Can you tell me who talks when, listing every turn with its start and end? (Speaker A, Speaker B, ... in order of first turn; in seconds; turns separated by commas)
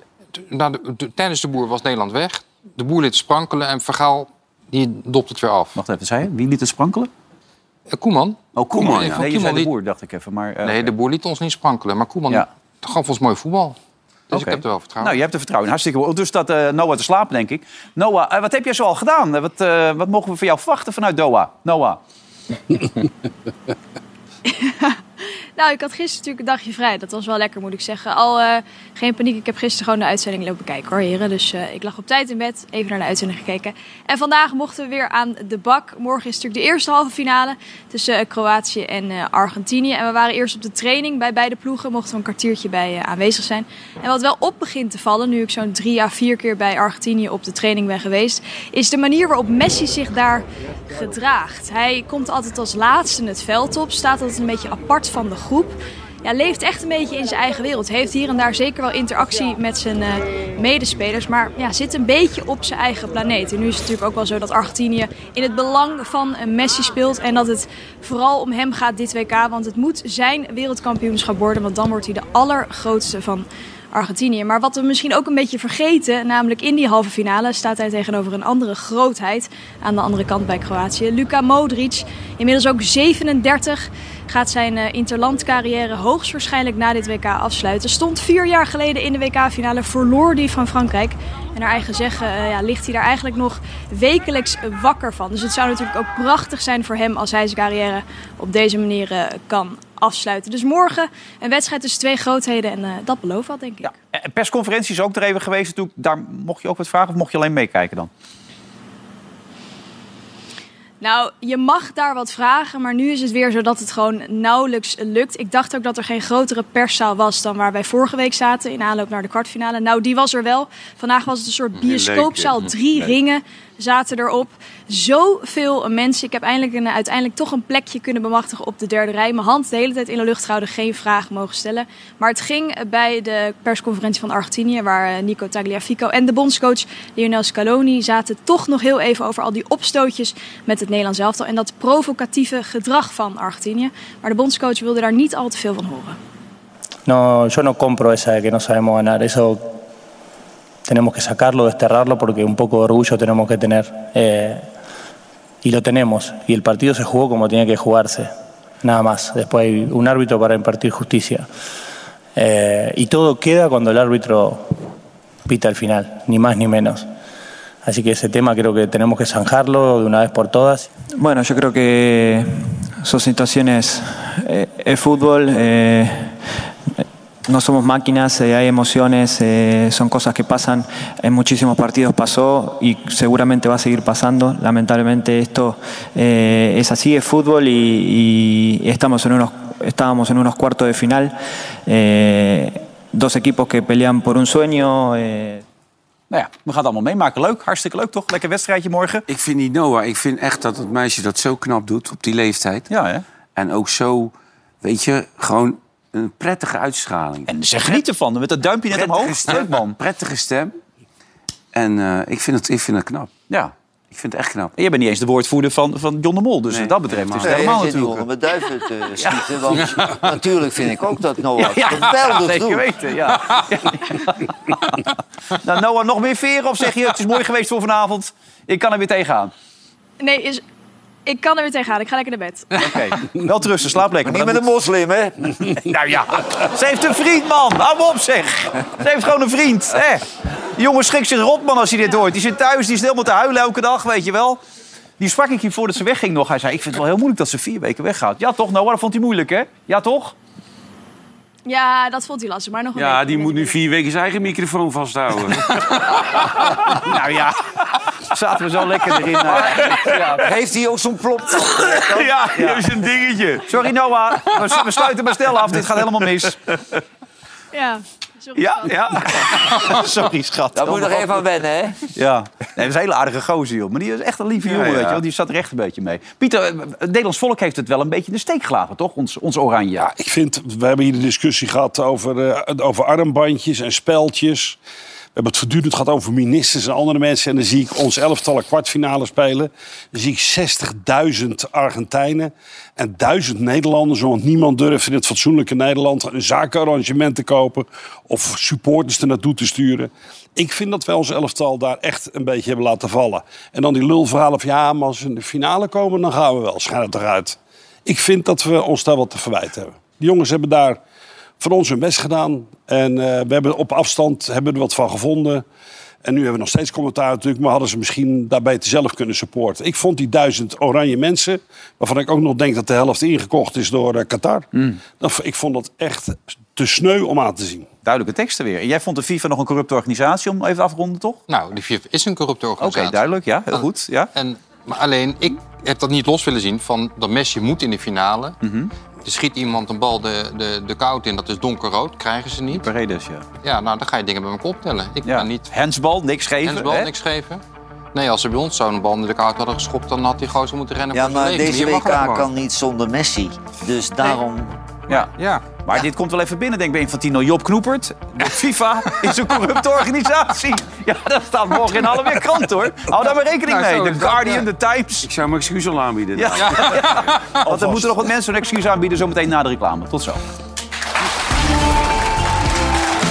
Speaker A: 0.3-5.8, Speaker B: 5.8-7.1, Speaker A: 7.9-9.7, Speaker B: 8.6-10.9, Speaker C: 8.6-9.2, Speaker A: 10.6-13.8, Speaker A: 14.3-15.2, Speaker B: 14.3-22.0, Speaker D: 24.4-25.0, Speaker D: 25.6-103.9, Speaker B: 103.8-108.1, Speaker D: 111.0-146.2, Speaker C: 121.8-123.1, Speaker E: 147.1-149.7, Speaker E: 150.8-154.7, Speaker E: 155.6-161.5, Speaker E: 162.3-164.8, Speaker E: 165.4-167.1, Speaker E: 167.8-170.9, Speaker F: 171.1-191.3, Speaker F: 191.8-195.6, Speaker B: 196.3-199.2, Speaker C: 199.3-202.9, Speaker B: 202.9-203.2, Speaker C: 203.6-208.0, Speaker B: 207.5-210.0, Speaker C: 208.9-210.7, Speaker C: 211.7-213.3, Speaker C: 214.1-214.7, Speaker B: 214.8-218.3, Speaker C: 216.7-217.8, Speaker G: 217.4-222.8, Speaker B: 221.6-229.5, Speaker D: 230.2-230.6, Speaker D: 231.2-233.0, Speaker B: 232.7-234.7, Speaker G: 234.2-235.8, Speaker B: 235.8-244.6, Speaker B: 245.2-250.3, Speaker D: 251.7-253.8, Speaker C: 252.9-257.1, Speaker B: 256.4-260.4, Speaker C: 259.3-260.4, Speaker G: 259.7-262.4, Speaker C: 261.5-263.8, Speaker B: 262.5-262.9, Speaker B: 263.6-266.6, Speaker C: 266.4-267.0, Speaker D: 267.7-269.3, Speaker C: 268.6-269.9, Speaker B: 268.8-271.4, Speaker G: 270.7-272.1, Speaker B: 272.0-280.1, Speaker C: 274.6-275.2, Speaker H: 280.0-284.8, Speaker H: 285.3-311.0, Speaker H: 311.6-315.6, Speaker H: 316.2-324.7, Speaker H: 325.2-327.9, Speaker B: 328.0-331.4, Speaker A: 331.5-333.2, Speaker B: 332.8-334.3, Speaker A: 334.3-338.6, Speaker B: 338.6-338.9, Speaker A: 339.2-342.9, Speaker B: 342.7-343.4, Speaker A: 343.6-345.7, Speaker B: 345.2-347.1, Speaker A: 346.6-347.6, Speaker A: 348.1-352.5, Speaker G: 351.1-354.8, Speaker B: 355.1-365.3, Speaker A: 355.4-355.6, Speaker A: 363.6-364.6, Speaker C: 365.2-367.1, Speaker B: 366.3-370.4, Speaker A: 366.6-367.6